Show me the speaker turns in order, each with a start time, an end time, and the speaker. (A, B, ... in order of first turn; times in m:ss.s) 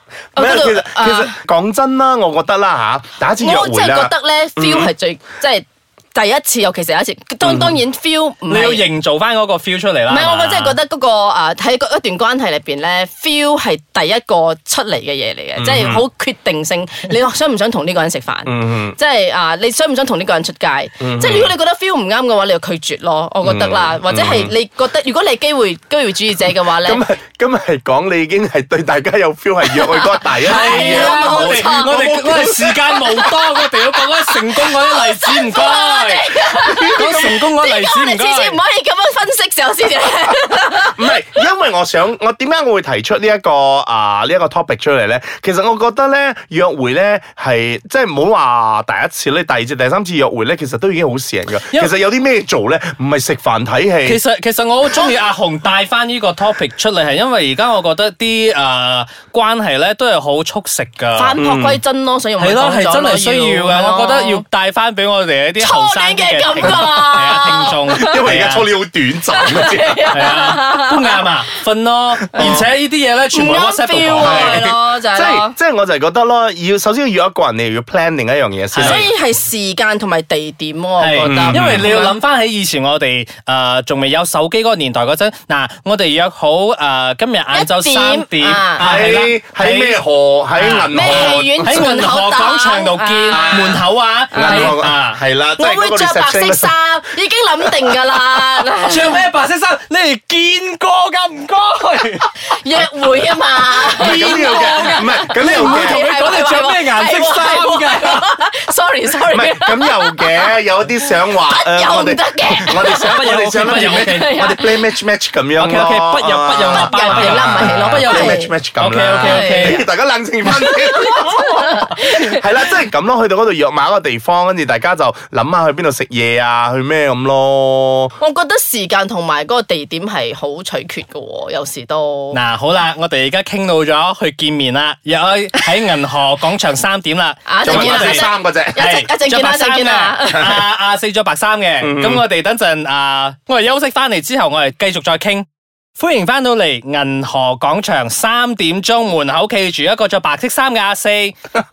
0:00.4-0:01.3 A
0:00.4-0:04.9 B
0:03.4-0:08.9 A
0:07.4-0:07.8 B
0:08.5-0:10.8 C
0:10.1-0:27.0 A
0:15.6-0:16.0 B
0:18.4-0:19.0 B
0:21.0-0:21.5 B
0:23.4-0:24.5 B
0:26.8-0:33.3 B
0:29.7-0:31.9 A
0:30.3-0:38.6 C
0:34.6-0:41.1 A
0:36.6-0:37.4 B
0:40.8-0:54.2 B
0:54.0-1:01.4 C
1:01.1-1:04.4 A
1:01.4-1:01.8 B
1:02.4-1:08.7 C
1:05.6-1:08.2 A
1:08.0-1:10.1 B
1:09.3-1:11.2 A
1:10.1-1:14.7 C
1:12.3-1:12.6 A
1:12.4-1:12.7 B
1:13.3-1:15.6 A
1:14.2-1:19.1 B
1:18.7-1:19.1 C
1:18.8-1:22.2 A
1:21.0-1:30.0 C
1:21.2-1:21.9 B
1:27.5-1:28.9 A
1:28.8-1:31.9 B
1:30.5-1:35.2 C
1:30.9-1:33.8 A
1:33.3-1:36.7 B
1:34.3-1:34.7 A
1:35.6-1:39.2 A
1:38.8-1:42.3 C
1:42.5-1:50.6 A
1:43.6-1:48.3 C
1:44.0-1:46.0 B
1:49.3-2:08.1 B
1:51.2-1:54.9 A
1:52.8-1:54.4 C
1:55.6-1:59.8 C
1:56.7-1:58.5 A
1:59.2-1:59.8 A
2:00.6-2:02.4 A
2:08.2-2:12.4 A
2:12.3-2:18.2 C
2:17.4-2:20.6 A
2:17.6-2:18.9 B
2:18.8-2:25.4 C
2:21.8-2:22.2 B
2:26.0-2:31.4 C